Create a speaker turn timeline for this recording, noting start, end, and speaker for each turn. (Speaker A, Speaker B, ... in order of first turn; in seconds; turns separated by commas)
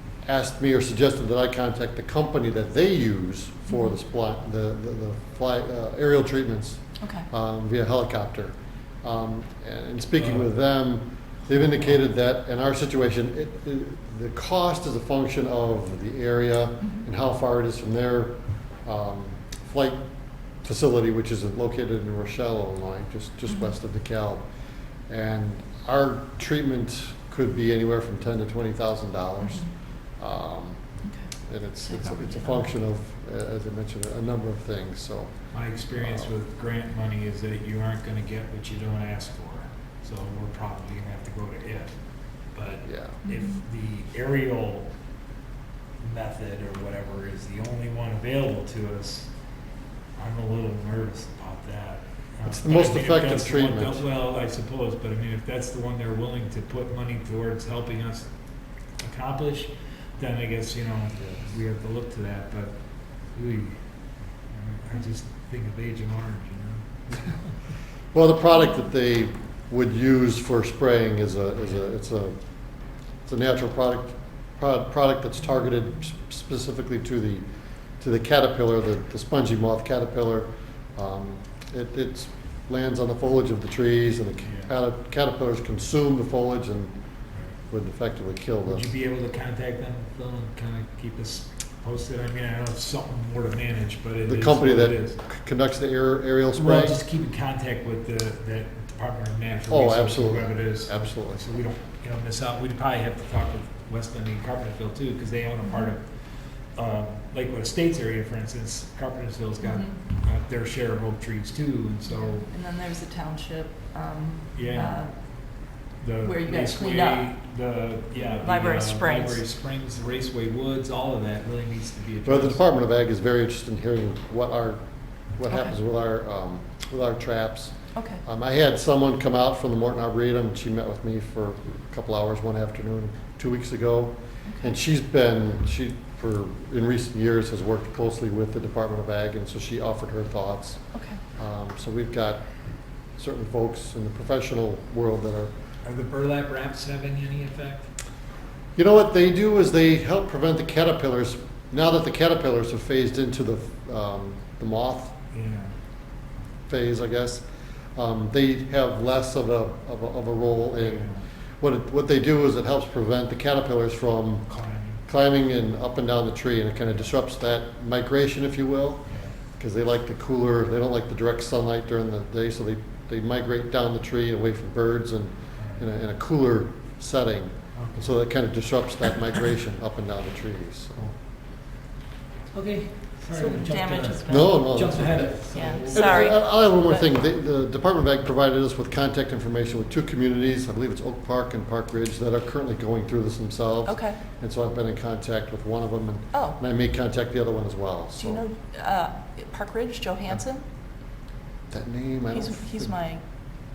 Speaker A: 0.2-24.5, Speaker B: 7.0-7.3, Speaker C: 10.2-10.5, Speaker B: 23.5-23.7, Speaker A: 25.1-35.3, Speaker B: 29.4-29.7, Speaker B: 31.0-31.3, Speaker B: 31.8-32.6, Speaker C: 35.5-44.9, Speaker A: 36.0-36.3, Speaker A: 42.9-43.2, Speaker B: 43.2-43.6, Speaker C: 46.0-49.3, Speaker C: 50.2-58.3, Speaker A: 52.5-54.0, Speaker C: 59.0-63.8, Speaker C: 64.5-67.5, Speaker A: 68.1-72.4, Speaker A: 73.2-77.5, Speaker A: 78.0-87.0, Speaker C: 84.4-84.7, Speaker A: 87.7-88.8, Speaker C: 88.7-95.2, Speaker A: 94.2-97.0, Speaker C: 96.5-112.5, Speaker A: 99.7-101.5, Speaker B: 105.6-105.9, Speaker B: 109.6-109.9, Speaker B: 112.1-115.2, Speaker C: 114.5-115.1, Speaker C: 116.0-122.6, Speaker B: 116.2-117.3, Speaker B: 118.2-119.4, Speaker A: 122.2-124.8, Speaker A: 125.3-140.8, Speaker B: 128.0-128.2, Speaker B: 134.5-134.7, Speaker B: 140.9-141.2, Speaker A: 141.4-142.4, Speaker A: 143.2-145.5, Speaker C: 145.8-147.9, Speaker A: 148.8-155.1, Speaker C: 155.3-155.8, Speaker A: 156.7-161.1, Speaker C: 160.8-161.2, Speaker A: 161.6-164.5, Speaker C: 164.5-165.0, Speaker A: 165.1-181.1, Speaker C: 169.1-169.3, Speaker C: 175.6-175.9, Speaker C: 177.7-178.2, Speaker C: 182.5-186.3, Speaker B: 183.3-184.7, Speaker A: 184.3-198.4, Speaker B: 185.5-187.1, Speaker B: 193.9-194.2, Speaker B: 196.3-196.6, Speaker B: 198.2-200.6, Speaker A: 201.7-202.9, Speaker B: 202.3-203.2